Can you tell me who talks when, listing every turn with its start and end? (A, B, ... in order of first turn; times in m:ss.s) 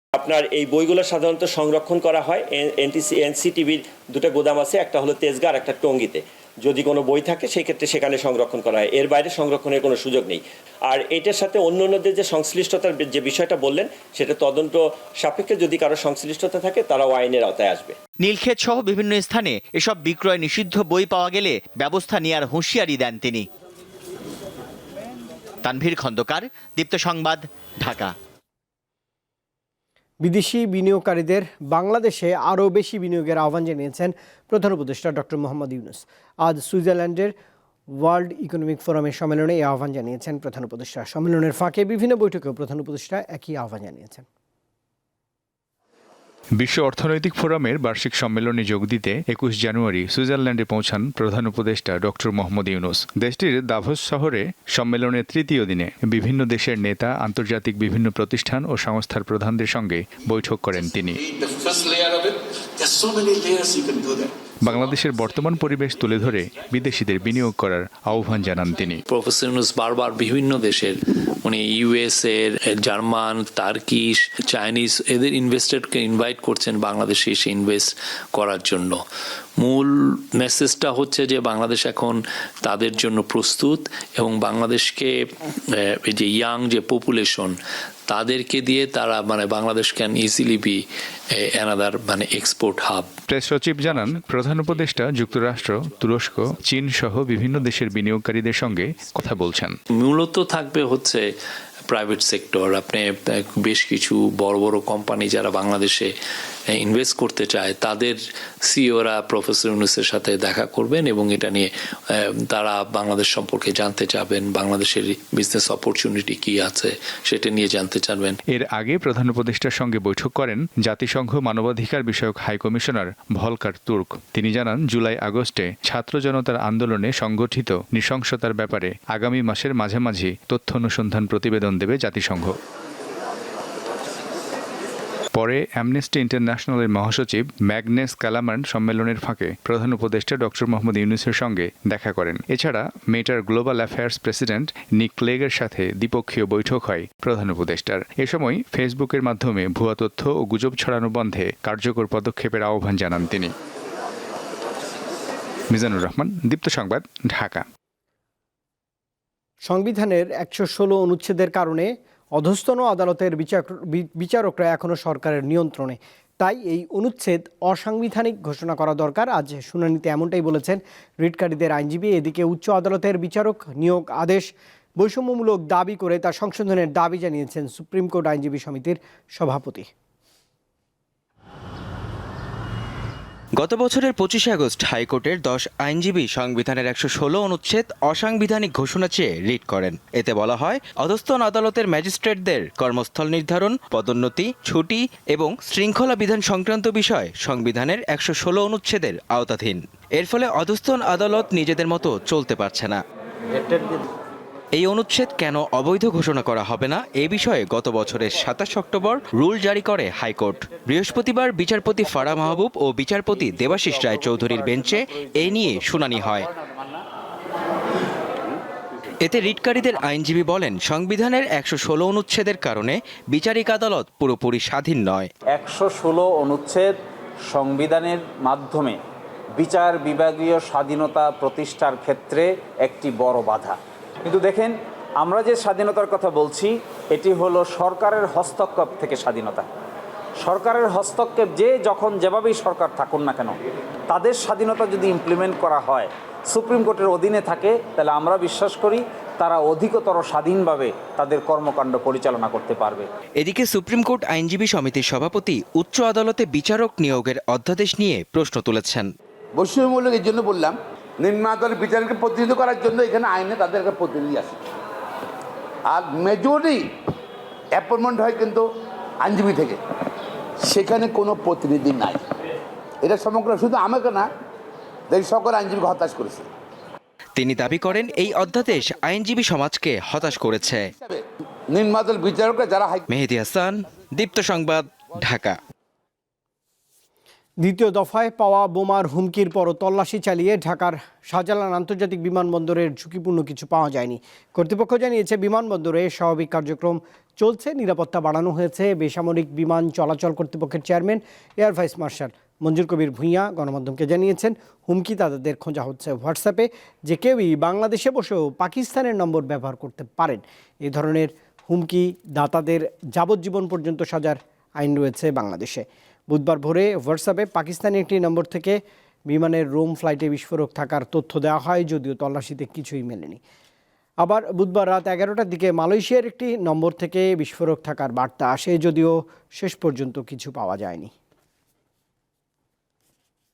0:00.2-0:18.0 A
0:18.2-0:23.5 B
0:25.6-0:28.1 B
0:30.2-0:37.3 C
0:37.9-0:44.2 C
0:46.6-1:01.2 D
1:04.6-1:09.0 D
1:09.0-1:19.0 E
1:19.6-1:27.6 E
1:28.1-1:30.8 E
1:31.3-1:33.1 E
1:33.3-1:39.8 D
1:39.9-1:41.3 E
1:41.9-1:46.1 E
1:46.7-1:58.4 E
1:58.5-2:12.6 D
2:15.3-2:33.5 D
2:35.7-2:37.6 D
2:39.6-2:59.9 C
3:03.6-3:23.0 F
3:24.7-3:36.5 F
3:39.2-3:45.3 F
3:45.5-3:46.9 G
3:47.5-3:49.0 G
3:49.6-3:59.7 G
4:00.4-4:03.6 G
4:04.1-4:13.1 G
4:13.4-4:19.1 F
4:19.6-4:24.6 H
4:25.9-4:26.9 H
4:27.8-4:28.6 H
4:29.2-4:29.8 H
4:30.7-4:32.2 H
4:33.0-4:34.3 H
4:35.1-4:36.5 H
4:37.4-4:40.9 F
4:41.7-4:43.0 H
4:43.1-4:45.6 F
4:47.6-5:23.4 C
5:24.2-5:31.1 C